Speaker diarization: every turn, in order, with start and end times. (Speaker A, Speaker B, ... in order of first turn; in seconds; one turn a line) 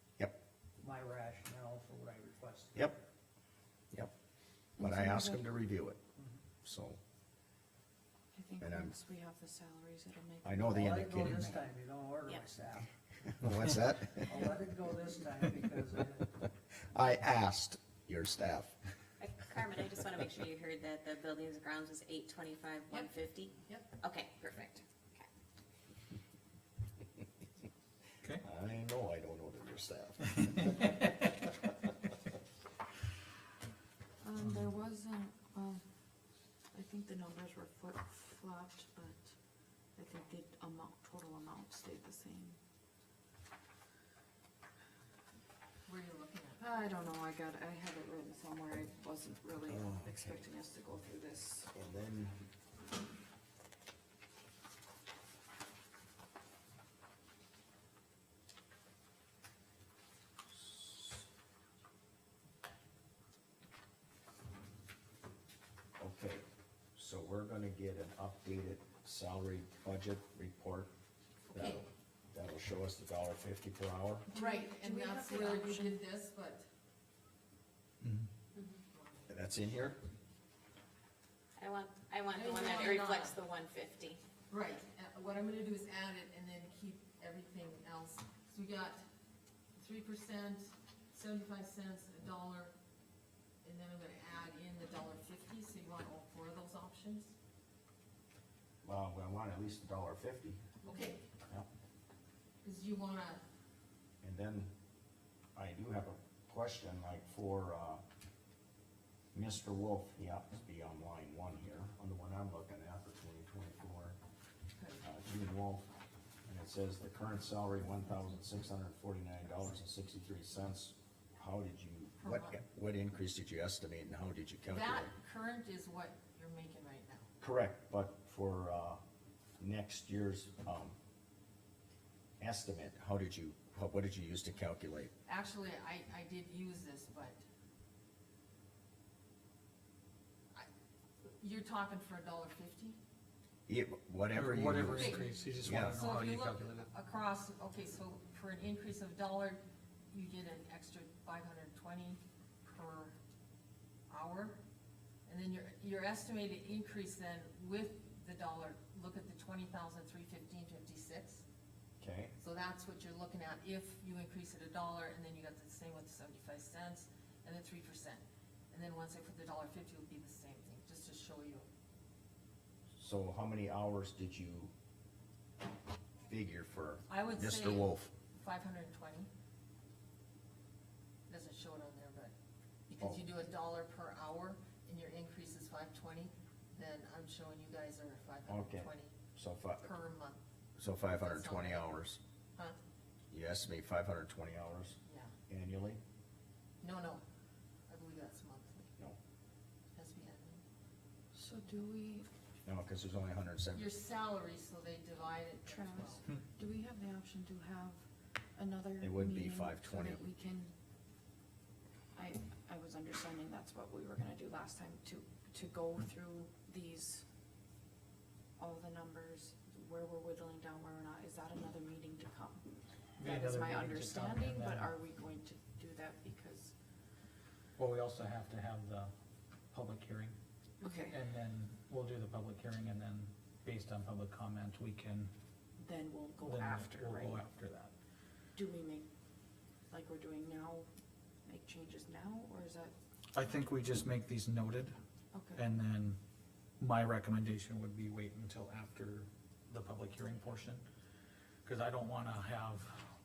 Speaker A: 0.8-2.9
Speaker B: 2.7-3.0
Speaker C: 4.8-5.4
Speaker B: 4.8-6.0
Speaker B: 6.6-7.0
Speaker C: 8.3-11.4
Speaker B: 8.6-8.9
Speaker B: 10.4-11.5
Speaker A: 10.6-12.9
Speaker B: 13.3-14.5
Speaker A: 14.2-16.3
Speaker B: 16.9-18.8
Speaker D: 19.2-25.3
Speaker E: 23.7-23.9
Speaker B: 28.4-31.2
Speaker C: 34.2-35.8
Speaker C: 36.7-39.4
Speaker C: 40.0-42.6
Speaker E: 45.9-46.6
Speaker C: 46.6-51.7
Speaker B: 49.7-50.4
Speaker B: 51.7-52.4
Speaker B: 60.6-61.2
Speaker B: 66.0-66.4
Speaker B: 66.9-70.9
Speaker E: 71.5-71.8
Speaker B: 71.5-74.3
Speaker E: 74.3-76.7
Speaker C: 74.3-76.0
Speaker F: 78.0-78.3
Speaker E: 78.9-79.3
Speaker B: 79.3-80.0
Speaker D: 81.6-84.2
Speaker E: 82.3-83.4
Speaker E: 84.5-89.0
Speaker E: 89.8-92.7
Speaker E: 93.6-97.3
Speaker B: 98.8-100.6
Speaker E: 100.8-101.2
Speaker E: 102.6-103.4
Speaker B: 104.2-104.7
Speaker B: 105.5-108.0
Speaker B: 109.3-114.2
Speaker E: 114.8-115.0
Speaker B: 115.0-115.9
Speaker B: 116.5-125.1
Speaker E: 122.2-122.6
Speaker E: 124.7-127.3
Speaker B: 127.4-129.0
Speaker B: 129.6-130.9
Speaker B: 132.4-135.1
Speaker E: 135.2-137.4
Speaker E: 141.4-143.0
Speaker B: 143.7-146.0
Speaker F: 144.3-146.9
Speaker E: 144.9-153.2
Speaker E: 154.1-154.6
Speaker E: 155.2-161.4
Speaker B: 162.0-162.3
Speaker E: 162.4-171.7
Speaker B: 173.0-174.7
Speaker B: 176.2-178.1
Speaker E: 177.1-179.3
Speaker E: 181.3-182.3
Speaker E: 182.9-189.1
Speaker B: 188.5-189.9
Speaker E: 189.8-190.4
Speaker B: 190.8-192.2
Speaker E: 191.2-191.9
Speaker B: 193.3-196.0
Speaker E: 195.0-195.3
Speaker E: 196.8-197.2
Speaker E: 197.9-198.9
Speaker E: 199.9-200.6
Speaker C: 201.3-202.3
Speaker B: 202.7-203.9
Speaker E: 203.7-206.2
Speaker C: 205.6-208.0
Speaker C: 208.6-210.7
Speaker B: 209.0-210.2
Speaker C: 212.1-217.2
Speaker C: 218.6-222.6
Speaker F: 223.2-224.9
Speaker C: 223.2-226.7
Speaker F: 227.8-229.1
Speaker F: 229.7-230.3
Speaker C: 230.8-231.2
Speaker F: 230.9-235.3
Speaker C: 235.8-237.4
Speaker F: 236.4-237.9
Speaker C: 238.5-239.1
Speaker C: 239.9-240.9
Speaker C: 241.4-242.9
Speaker F: 243.3-244.9
Speaker C: 245.3-245.7
Speaker F: 245.5-246.2
Speaker F: 246.8-250.8
Speaker F: 251.6-253.0